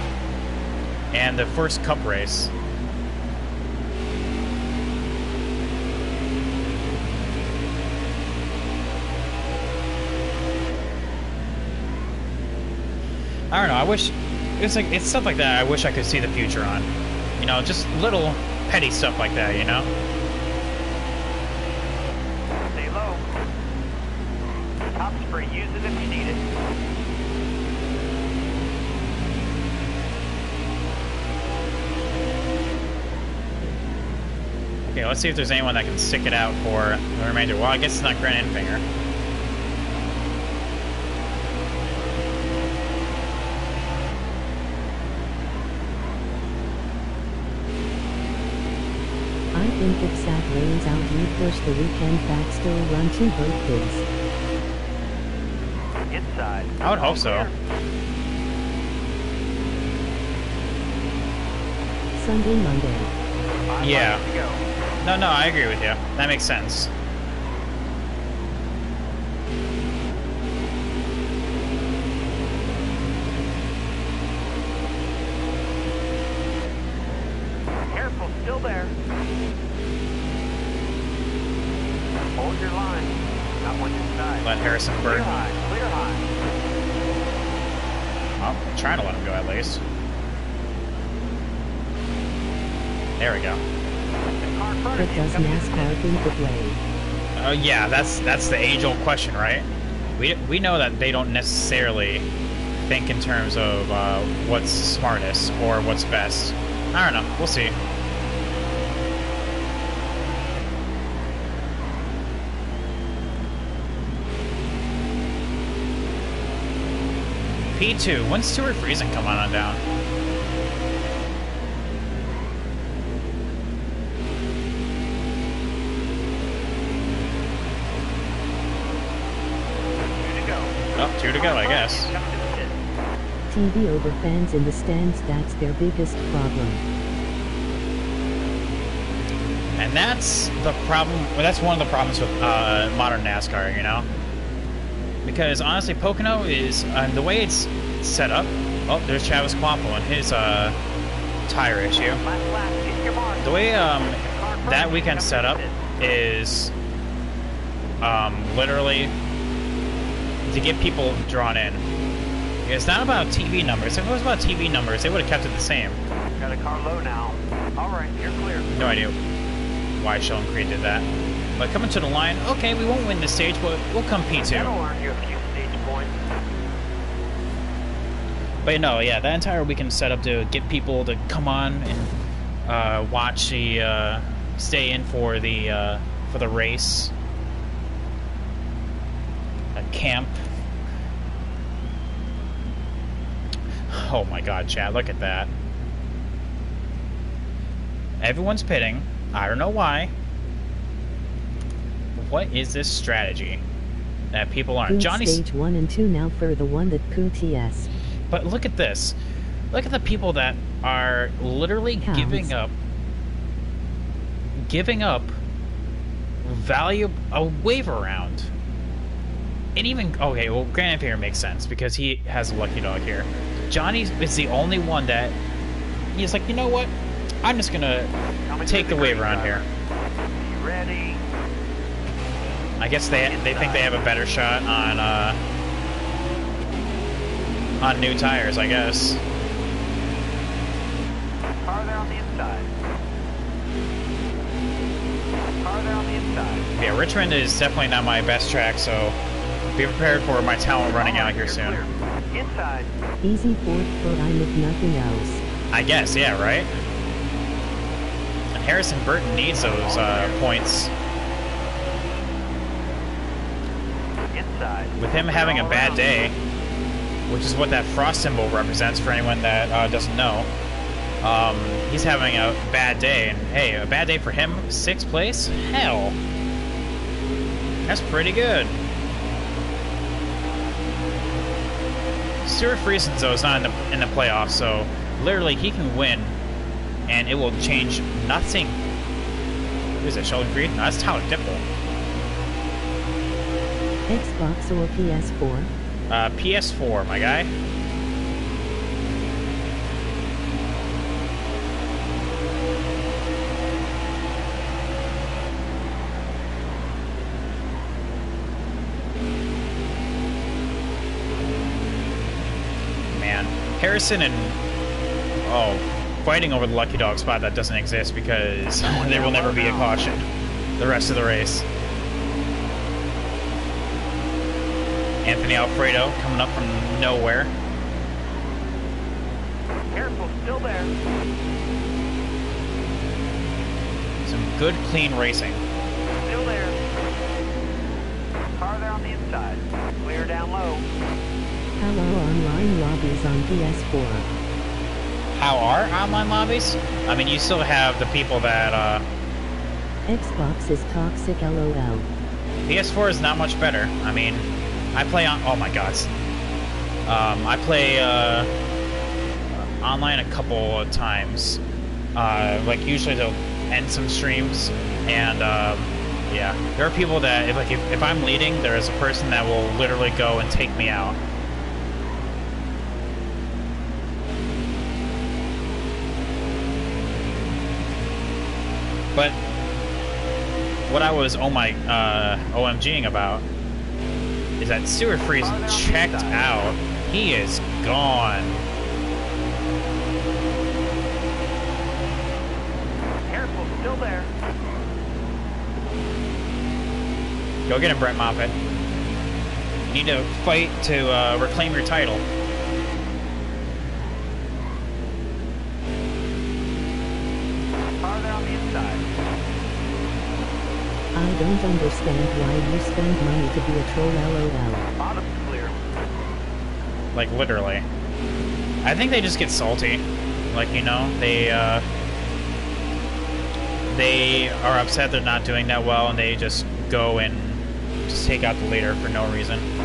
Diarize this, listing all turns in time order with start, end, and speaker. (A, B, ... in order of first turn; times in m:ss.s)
0:01.1-0:02.5 A
0:13.5-0:19.9 A
0:22.7-0:23.3 B
0:24.9-0:26.4 B
0:34.9-0:38.8 A
0:49.5-0:54.0 C
0:56.1-0:57.6 B
0:56.8-0:57.5 A
1:02.2-1:03.1 C
1:03.7-1:04.6 B
1:03.8-1:04.2 A
1:05.0-1:06.9 A
1:17.9-1:18.9 B
1:22.4-1:26.3 B
1:24.4-1:25.5 A
1:28.4-1:29.8 A
1:33.2-1:33.6 A
1:34.4-1:36.0 B
1:35.0-1:36.8 C
1:37.4-1:39.7 A
1:40.2-1:42.3 A
1:42.8-1:47.8 A
1:57.7-1:59.8 A
2:10.1-2:12.8 B
2:11.0-2:12.1 A
2:13.5-2:16.8 C
2:19.8-2:24.1 A
2:25.2-2:30.8 A
2:31.5-2:32.2 A
2:32.2-2:36.1 B
2:33.4-2:36.7 A
2:38.0-2:39.1 A
2:40.4-2:41.9 A
2:42.6-2:46.0 A
2:46.4-2:48.9 B
2:48.7-2:49.2 A
2:50.0-2:51.1 A
2:51.6-2:54.7 A
2:54.5-2:56.2 B
2:58.6-3:02.1 A
3:02.6-3:07.1 A
3:09.7-3:10.3 A
3:13.9-3:15.5 A
3:18.2-3:20.1 A
3:22.2-3:23.6 A
3:24.3-3:25.4 A
3:24.9-3:27.9 C
3:28.3-3:29.2 A
3:29.7-3:32.7 A
3:32.0-3:32.5 C
3:34.6-3:35.4 A
3:36.4-3:38.5 A
3:39.8-3:45.4 A
3:46.1-3:48.1 A
3:48.5-3:49.6 B
3:48.6-3:49.6 A
3:50.3-3:51.2 B
3:52.8-3:55.4 A
3:53.2-3:53.9 B
3:57.8-3:59.2 A
4:01.6-4:02.7 B
4:05.6-4:06.7 B
4:06.7-4:09.2 A
4:09.8-4:11.8 A
4:10.9-4:12.9 B
4:13.2-4:15.4 C
4:15.7-4:16.7 A
4:18.6-4:20.9 A
4:19.6-4:20.5 B
4:24.3-4:26.2 B
4:25.0-4:26.4 A
4:27.3-4:30.5 A
4:31.2-4:36.2 A
4:37.9-4:38.8 A
4:42.4-4:46.4 A
4:47.1-4:48.8 A
4:50.0-4:51.6 A
4:54.1-4:55.7 C
4:56.1-4:57.5 A
5:13.1-5:14.6 A
5:15.4-5:20.2 A
5:18.8-5:20.0 B
5:20.8-5:21.6 A
5:25.2-5:27.5 A
5:29.9-5:30.9 B
5:34.2-5:35.6 A
5:36.2-5:36.8 B
5:38.6-5:40.9 B
5:41.8-5:44.3 C
5:45.3-5:49.0 A
5:50.1-5:52.1 C
5:52.7-5:56.1 A
5:57.0-5:58.5 A
5:59.6-6:01.6 A
6:02.1-6:11.2 A
6:20.9-6:23.4 A
6:24.6-6:28.7 A
6:25.3-6:26.7 B
6:33.3-6:34.3 B
6:37.7-6:38.6 A
6:39.9-6:42.2 A
6:48.0-6:49.1 B
6:51.1-6:54.8 C
6:55.0-6:55.7 B
6:57.1-6:57.8 A
6:58.8-7:01.9 A
7:03.9-7:09.7 A